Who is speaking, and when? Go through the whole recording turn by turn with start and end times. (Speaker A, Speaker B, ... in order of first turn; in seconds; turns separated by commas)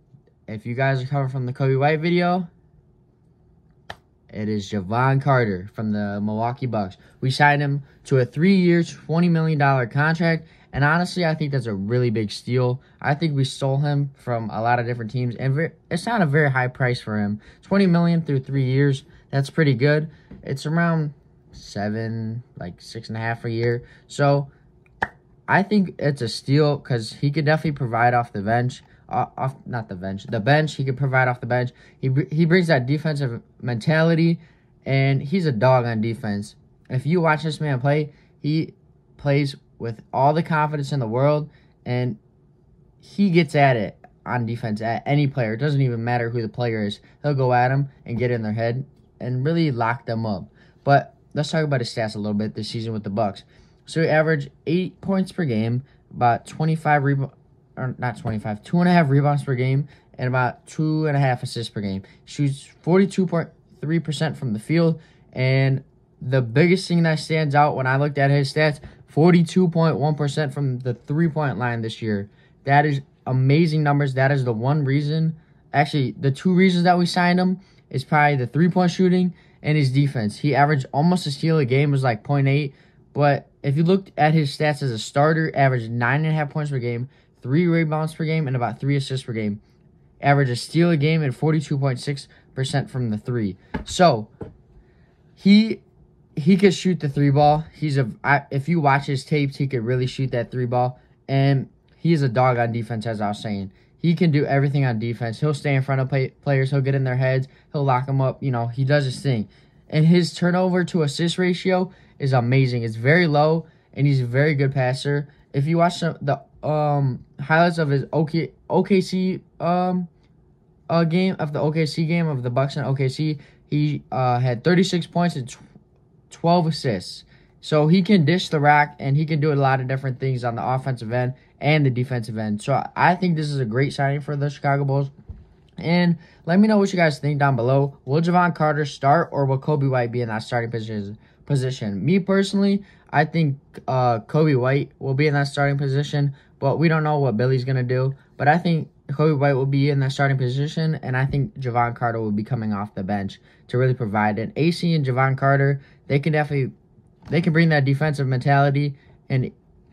Speaker A: 0.5-2.5, Speaker A: 4.3-24.5, Speaker A: 25.5-42.2, Speaker A: 43.0-89.6, Speaker A: 90.2-94.3, Speaker A: 95.4-95.8, Speaker A: 96.4-120.1, Speaker A: 120.9-125.6, Speaker A: 126.3-135.1, Speaker A: 135.8-156.7, Speaker A: 157.3-159.5